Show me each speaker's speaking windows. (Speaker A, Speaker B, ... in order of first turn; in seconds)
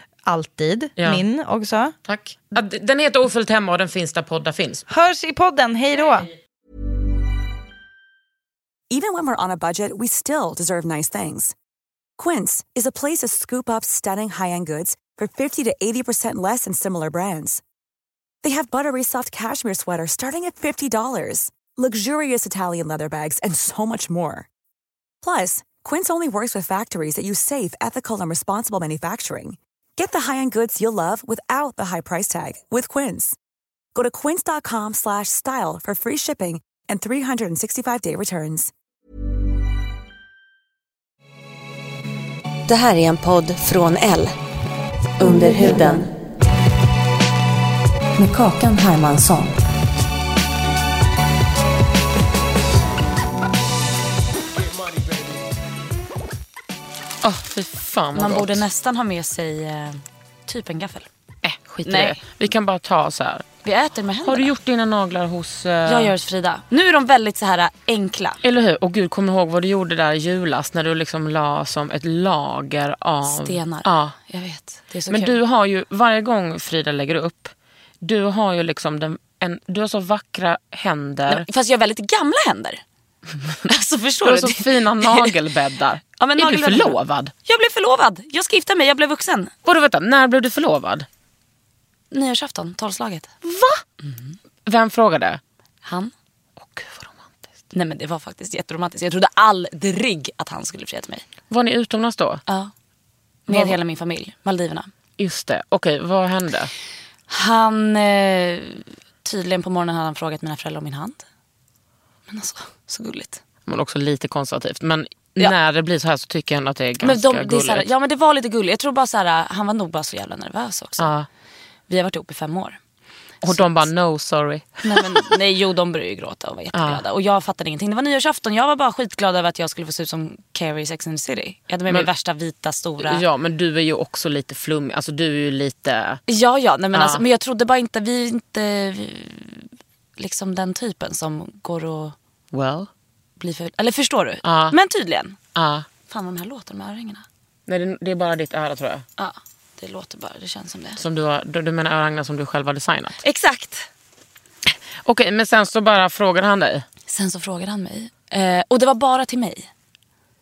Speaker A: 0.2-1.9, 4.9-6.3
Speaker B: 1.0-1.2, 2.1-4.8, 57.2-58.6, 61.4-63.5, 64.2-66.1, 68.4-74.2, 75.1-81.5, 84.2-87.3, 89.7-91.1, 93.4-93.8, 94.7-95.4, 96.6-97.3, 101.5-102.4, 103.5-103.8, 105.2-106.7, 113.7-117.9, 121.0-121.3, 123.4-125.2, 126.7-127.0, 133.0-136.2, 136.9-137.2, 142.5-142.9, 144.4-144.8, 145.6-145.9, 147.7-149.1, 151.0-153.2, 155.1-156.8
Speaker C: 8.9-11.5, 12.2-17.6, 18.4-24.5, 25.2-33.4, 33.9-38.7
Speaker D: 42.7-44.3, 45.2-46.1, 48.2-49.5
Speaker E: 58.1-61.1, 61.9-62.2, 63.6-64.5, 65.8-68.4, 73.2-75.4, 81.3-82.8, 83.4-85.3, 86.2-89.5, 92.1-93.3, 95.8-96.1, 97.7-101.2, 102.5-102.7, 103.5-104.9, 107.3-111.2, 112.3-113.4, 117.0-121.1, 121.9-122.8, 123.4-123.8, 124.8-133.2, 136.3-142.2, 143.4-145.4, 146.1-147.2, 149.2-151.0, 153.2-153.9, 157.1-159.7